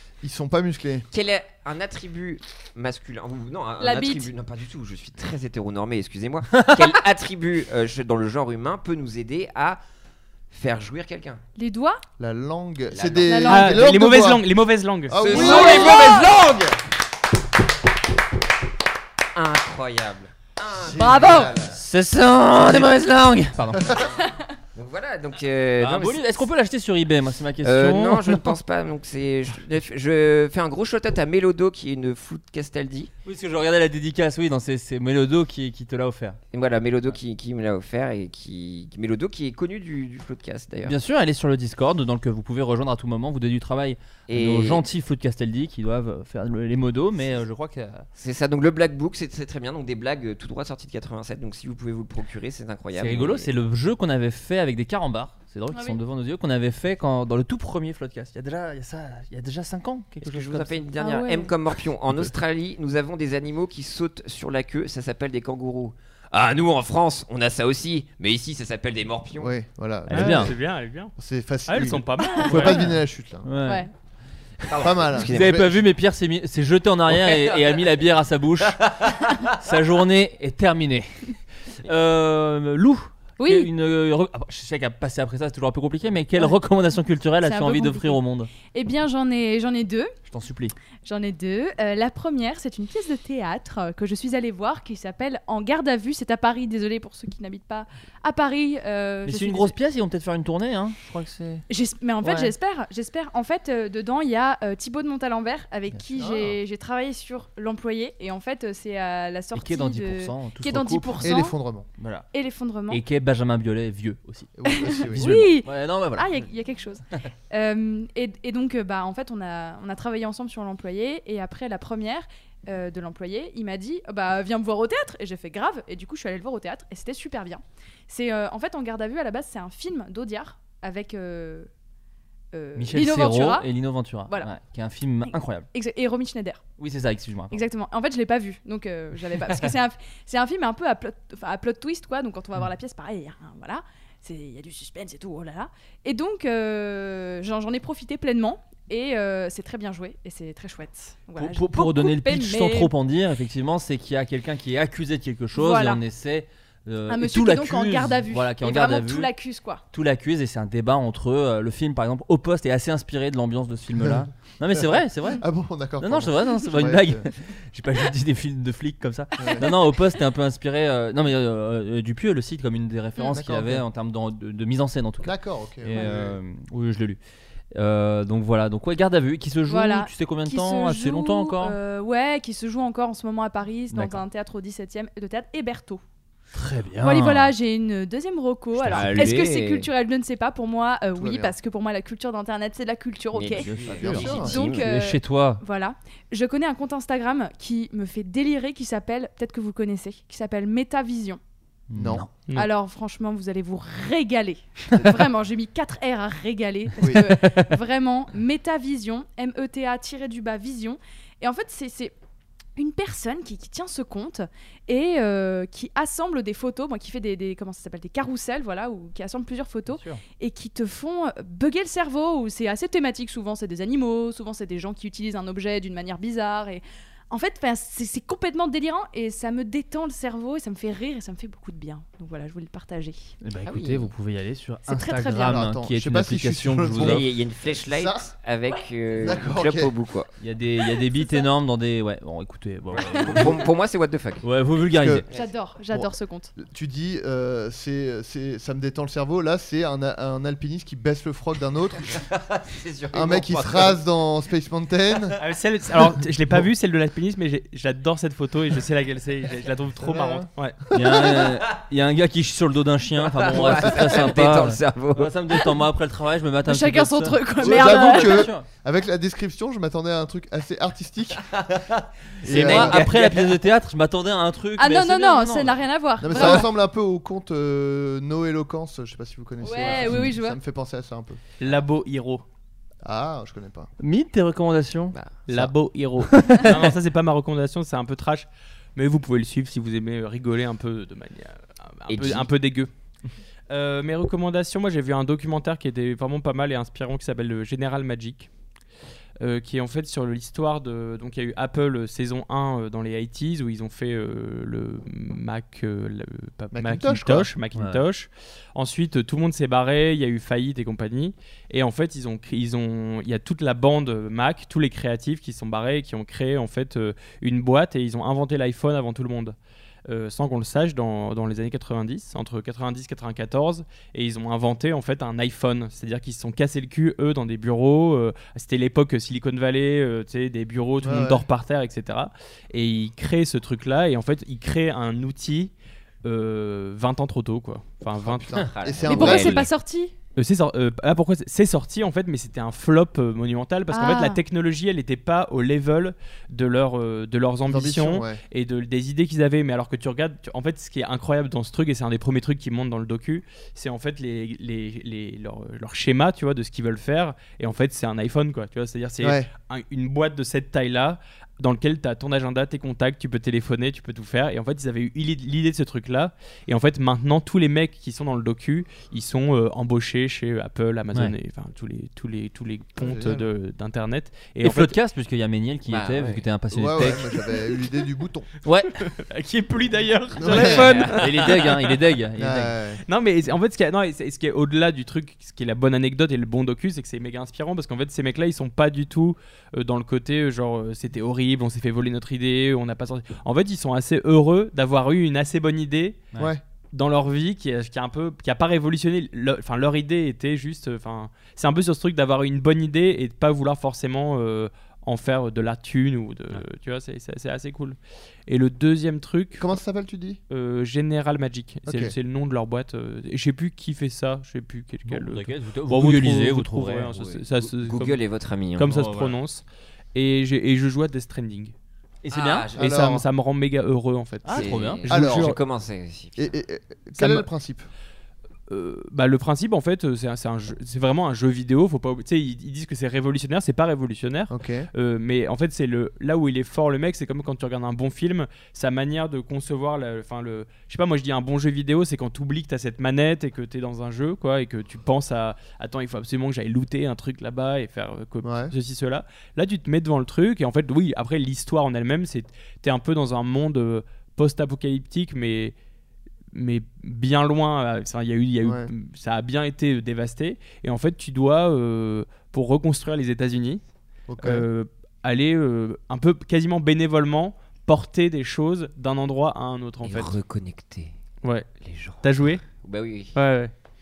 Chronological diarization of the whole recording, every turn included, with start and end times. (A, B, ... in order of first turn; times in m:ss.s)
0:00.2-0:01.1 A
0:01.1-0:09.8 B
0:03.8-0:04.3 C
0:06.6-0:06.8 D
0:10.5-0:11.4 B
0:11.6-0:12.0 C
0:12.2-0:14.4 A
0:12.9-0:13.5 B
0:13.3-0:13.8 C
0:13.5-0:15.6 E
0:15.1-0:16.6 A
0:15.2-0:16.7 B
0:15.3-0:16.3 C
0:19.3-0:21.6 B
0:20.7-0:21.8 A
0:20.9-0:21.5 C
0:21.7-0:23.9 D
0:23.8-0:24.1 A
0:24.7-0:26.4 B
0:25.8-0:28.5 D
0:27.6-0:33.1 B
0:33.2-0:36.4 D
0:36.5-0:41.0 B
0:40.8-0:48.1 D
0:44.3-0:44.8 B
0:48.2-0:53.5 B
0:52.9-1:00.9 D
0:55.7-0:56.0 C
1:00.2-1:09.5 B
1:01.0-1:01.5 C
1:09.4-1:10.6 A
1:10.1-1:10.5 D
1:10.1-1:11.1 E
1:11.2-1:13.5 A
1:11.7-1:12.8 E
1:12.5-1:12.9 D
1:13.4-1:13.9 D
1:13.6-1:13.9 C
1:14.6-1:15.8 B
1:14.8-1:15.8 A
1:15.2-1:18.8 D
1:17.1-1:17.8 B
1:19.5-1:21.3 D
1:21.8-1:28.5 D
1:23.4-1:23.7 C
1:27.4-1:30.1 C
1:30.3-1:30.7 D
1:31.0-1:39.7 C
1:39.2-1:41.6 D
1:41.7-1:51.6 C
1:42.2-1:42.5 D
1:46.1-1:46.6 A
1:49.6-1:51.3 D
1:51.2-1:51.9 A
1:52.0-1:52.3 D
1:52.3-1:53.0 C
1:52.9-1:54.5 D
1:54.6-1:55.3 A
1:54.7-2:11.7 C
1:55.1-1:56.4 D
2:12.5-2:13.7 C
2:12.8-2:15.7 D
2:15.3-2:16.6 C
2:16.8-2:17.6 D
2:17.5-2:32.9 C
2:31.4-2:39.3 D
2:35.6-2:36.0 C
2:37.1-2:39.8 C
2:39.9-2:45.4 D
2:44.0-2:47.3 A
2:46.0-2:55.3 D
2:49.4-2:49.6 A
2:53.3-2:53.8 A
2:55.2-2:56.4 A
2:55.8-2:57.2 D
2:57.7-3:01.8 D
2:59.7-3:06.0 C
3:03.9-3:04.2 D
3:06.5-3:07.5 D
3:07.0-3:21.4 C
3:08.8-3:09.5 D
3:08.9-3:09.9 B
3:11.2-3:11.6 A
3:13.3-3:14.9 B
3:13.6-3:15.6 D
3:14.0-3:14.5 A
3:21.9-3:22.3 D
3:21.9-3:22.3 A
3:22.5-3:32.1 C
3:27.0-3:27.3 A
3:27.2-3:27.7 D
3:32.8-3:53.3 C
3:39.9-3:40.2 D
3:53.4-3:57.2 D
3:53.6-3:54.1 B
3:54.9-3:55.6 C
3:55.4-3:58.3 A
3:57.0-4:00.3 B
3:59.1-3:59.9 A
4:00.4-4:03.6 D
4:03.0-4:04.5 B
4:04.4-4:05.3 D
4:05.0-4:05.2 A
4:05.3-4:06.5 C
4:05.9-4:12.2 A
4:12.1-4:14.0 B
4:13.1-4:15.4 A
4:15.4-4:20.9 E
4:20.0-4:21.2 A
4:20.9-4:28.7 D
4:23.2-4:25.3 B
4:26.6-4:28.5 C
4:27.6-4:31.6 A
4:31.7-4:32.0 B
4:32.4-4:33.2 A
4:32.4-4:35.8 D
4:32.6-4:33.6 B
4:34.8-4:36.7 C
4:36.2-4:41.4 A
4:39.6-4:40.6 C
4:41.6-4:42.4 E
4:43.0-4:43.9 A
4:44.0-4:45.1 D
4:45.1-4:45.4 B
4:45.5-4:52.9 E
4:46.2-4:46.9 D
4:52.1-4:52.5 B
4:53.7-4:58.5 E
4:59.4-5:19.6 E
5:06.7-5:07.5 A
5:07.7-5:08.0 D
5:20.1-5:35.7 E
5:31.0-5:31.4 A
5:36.2-5:38.6 E
5:38.2-5:39.7 A
5:38.6-5:39.7 B
5:39.1-5:40.1 C
5:40.4-6:14.9 E
5:43.9-5:44.4 C
5:47.7-5:48.4 A
5:59.2-5:59.5 A
6:13.0-6:13.4 A
6:14.6-6:17.3 D
6:15.9-6:16.5 B
6:16.7-6:18.5 A
6:18.6-6:19.0 D
6:19.0-6:21.9 E
6:20.4-6:21.1 A
6:20.6-6:22.7 D
6:20.6-6:21.5 B
6:22.4-6:23.0 A
6:23.1-6:36.2 E
6:36.9-6:49.7 E
6:49.6-6:50.4 A
6:50.5-6:58.2 E
6:51.8-6:52.1 A
6:55.1-6:57.2 D
6:57.1-6:59.0 B
6:58.8-6:59.6 E
6:58.9-6:59.4 D
7:00.1-7:01.7 E
7:02.2-7:02.7 D
7:02.3-7:02.8 B
7:02.7-7:03.2 A
7:02.8-7:05.6 E
7:04.4-7:05.0 D
7:04.5-7:06.5 B
7:05.1-7:05.6 A
7:06.4-7:07.9 A
7:07.2-7:07.5 E
7:08.7-7:35.7 E
7:14.5-7:14.9 A
7:28.4-7:28.7 A
7:36.5-7:43.8 E
7:38.6-7:38.9 A
7:44.3-7:44.6 A
7:44.4-7:50.4 E
7:50.0-7:51.1 B
7:51.4-7:51.7 E
7:51.8-7:53.3 B
7:52.2-7:52.6 E
7:53.3-7:53.7 E